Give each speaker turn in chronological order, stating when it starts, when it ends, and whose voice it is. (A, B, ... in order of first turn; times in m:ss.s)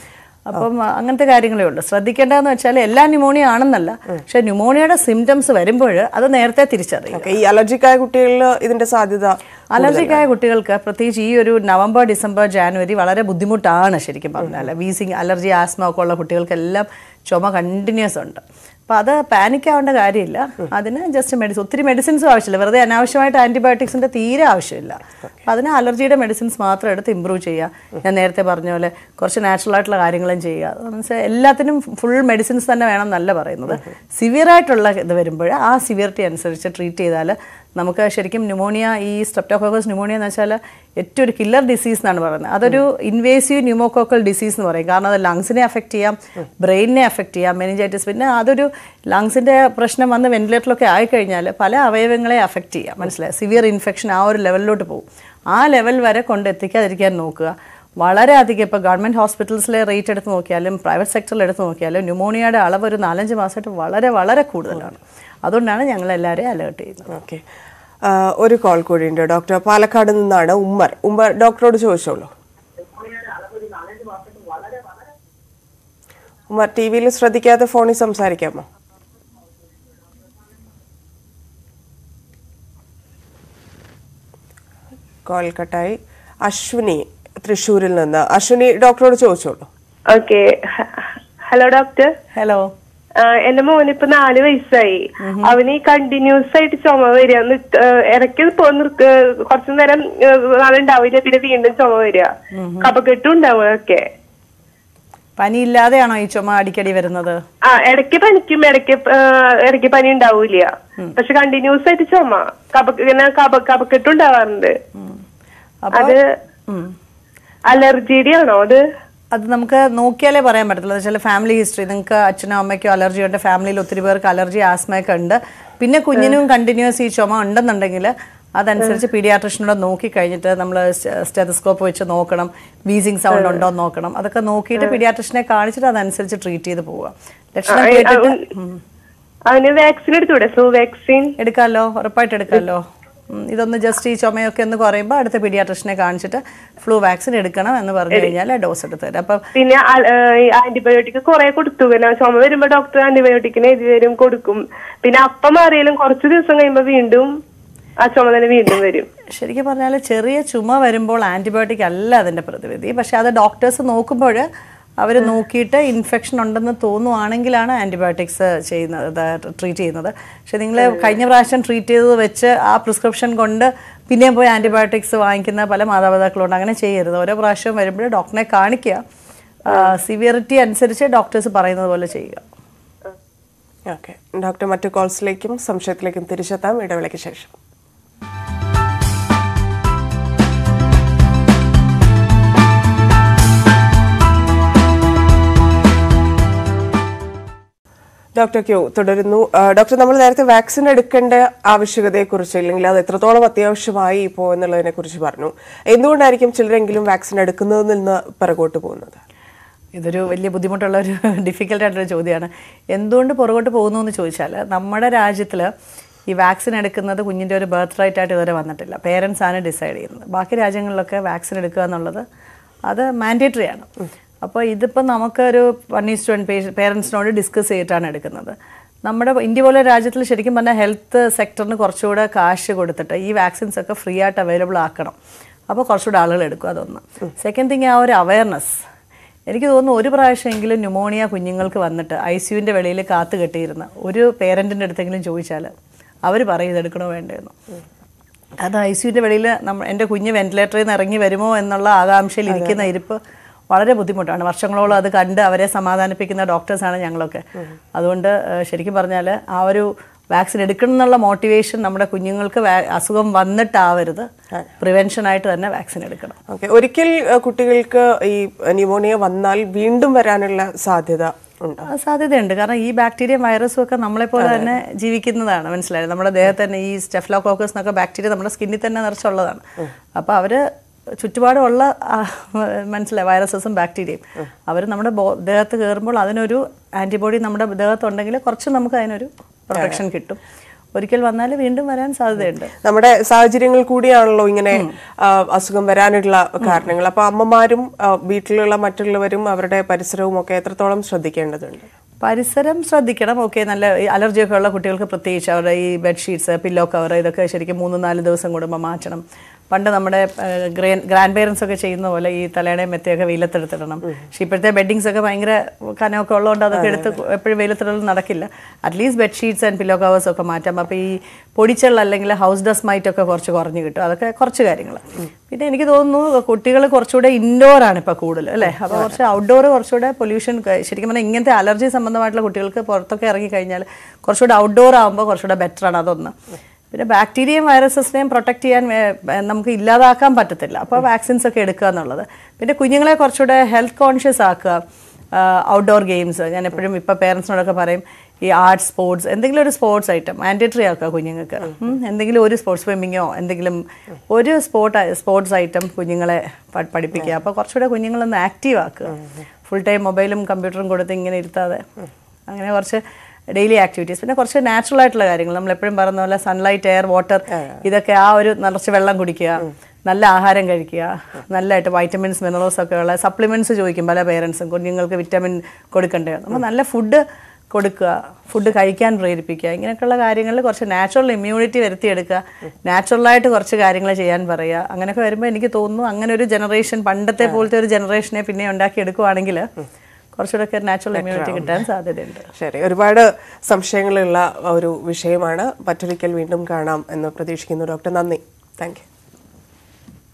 0:00.5-0:07.3 A
0:07.1-0:10.2 B
0:09.7-1:07.1 A
1:07.1-1:07.4 B
1:08.0-1:12.3 B
1:16.5-1:18.6 B
1:25.3-1:29.7 B
1:30.1-1:32.1 C
1:32.4-1:32.7 A
1:33.2-1:42.3 C
1:35.2-1:35.6 A
1:42.5-1:42.9 A
1:42.8-1:44.0 C
1:45.4-1:47.4 A
1:47.7-1:54.7 C
1:55.8-1:56.1 A
1:55.9-1:56.2 C
1:57.7-1:58.8 C
1:59.3-2:18.8 A
2:17.7-2:18.4 C
2:19.5-2:21.3 C
2:21.4-2:29.4 A
2:29.6-2:37.3 C
2:38.0-2:39.1 C
2:39.4-2:44.4 A
2:45.0-2:59.0 A
2:59.7-3:02.4 A
3:03.9-3:07.5 B
3:18.4-3:29.2 B
3:30.0-3:35.7 A
3:36.3-3:42.2 A
3:42.9-3:43.9 A
3:44.4-3:55.2 A
3:55.7-3:58.8 A
3:59.5-4:05.7 A
4:06.2-4:07.5 A
4:08.6-4:13.2 A
4:13.7-4:17.4 A
4:18.0-4:24.3 A
4:24.8-4:26.4 A
4:26.5-4:31.9 B
4:31.9-4:39.6 A
4:34.4-4:34.7 B
4:40.2-4:40.6 A
4:41.2-4:50.4 A
4:50.9-4:52.7 A
4:52.8-5:01.9 B
5:02.2-5:36.3 A
5:36.9-5:44.8 A
5:45.3-6:01.8 A
6:02.5-6:03.0 A
6:03.5-6:29.7 A
6:30.4-6:32.5 A
6:31.1-6:31.7 B
6:32.6-6:39.0 B